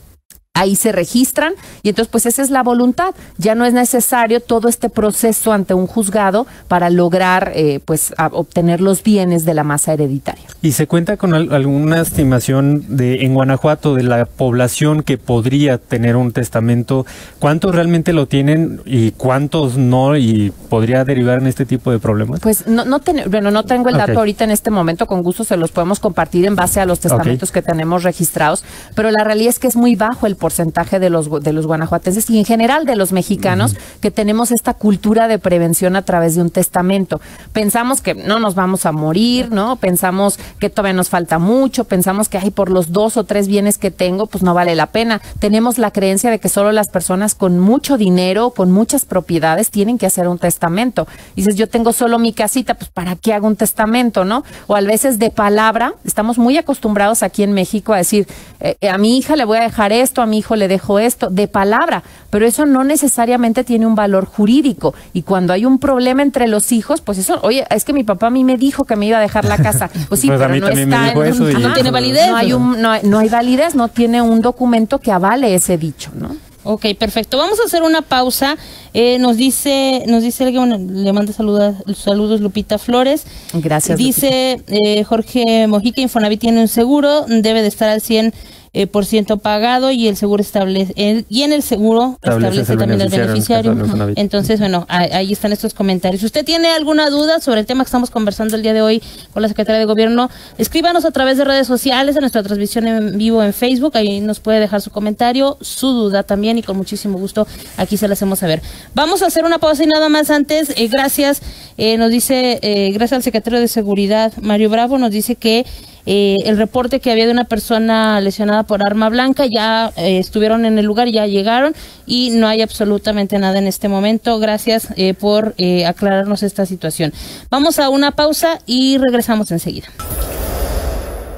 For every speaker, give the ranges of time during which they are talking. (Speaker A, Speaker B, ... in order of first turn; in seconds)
Speaker A: 0.6-10.5, 22.4-76.4, 83.5-84.3
Speaker B: 10.6-22.4, 27.1-27.4, 70.2-72.5, 92.2-94.2
Speaker C: 71.6-72.6, 76.6-83.2, 83.9-129.9